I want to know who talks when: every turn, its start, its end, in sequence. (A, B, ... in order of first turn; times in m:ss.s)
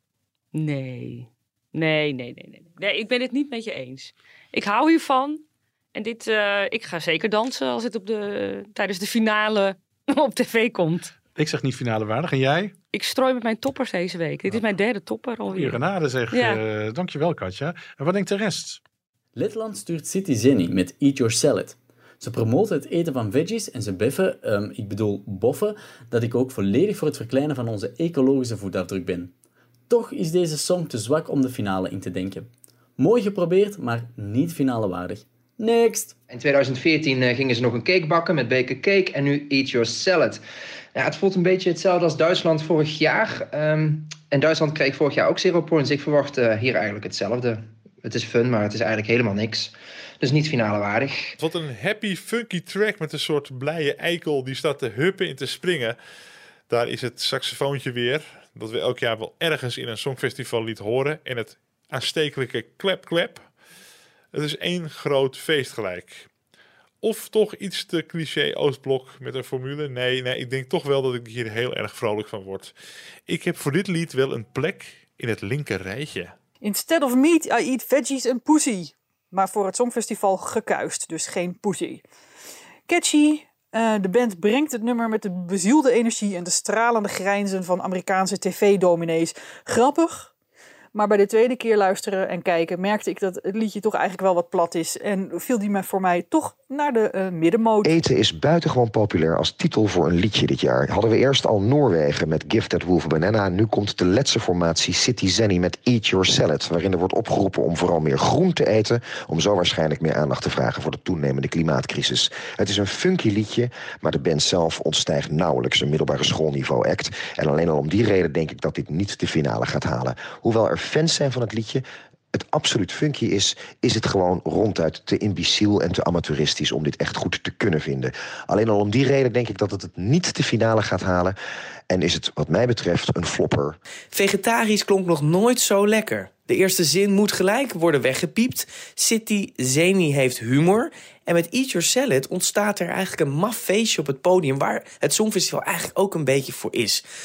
0:00.5-0:05.4 A
0:06.0-0:11.1 A
0:11.4-0:12.8 B
0:12.9-0:15.8 A
0:15.5-0:18.8 B
0:16.3-0:16.6 A
0:19.4-0:29.3 C
0:29.9-0:36.2 C
0:36.3-0:40.4 D
0:41.0-0:51.4 D
0:51.4-0:56.0 E
0:56.7-1:03.5 E
1:04.3-1:06.3 E
1:07.0-1:12.7 E
1:13.3-1:16.3 E
1:16.6-1:22.0 F
1:22.9-1:30.3 F
1:30.9-1:37.9 F
1:37.8-2:11.4 G
2:11.9-2:13.8 G
2:14.1-2:27.0 H